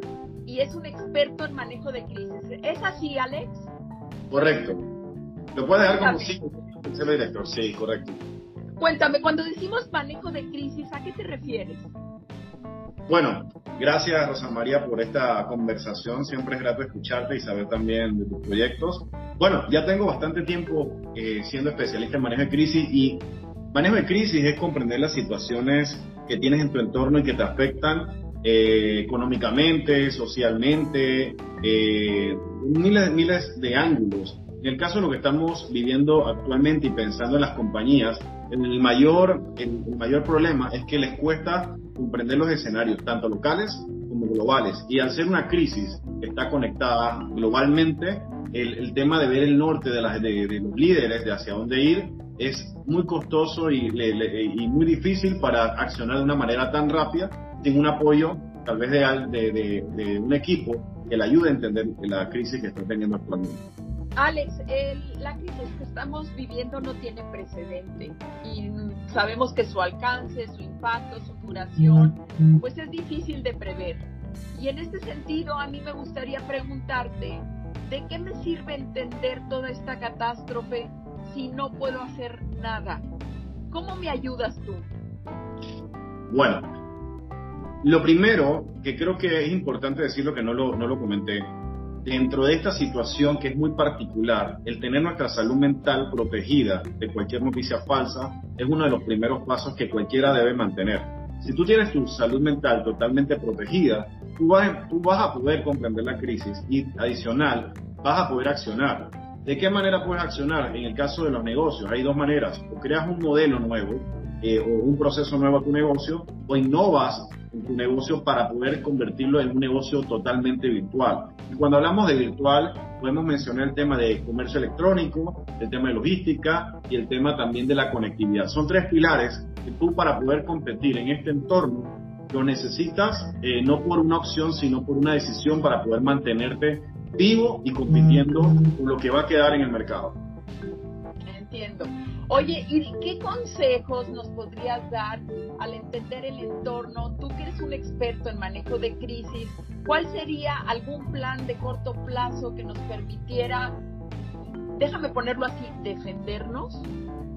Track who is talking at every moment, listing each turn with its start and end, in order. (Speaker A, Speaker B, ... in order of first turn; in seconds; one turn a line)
Speaker A: 0.5-3.7
Speaker B: 4.3-4.9
Speaker B: 5.5-8.2
Speaker A: 5.8-6.3
Speaker A: 8.8-11.9
Speaker B: 13.1-63.6
Speaker A: 64.2-83.1
Speaker A: 83.7-84.9
Speaker B: 86.3-86.7
Speaker B: 87.8-140.2
Speaker A: 141.2-153.8
Speaker A: 154.8-156.9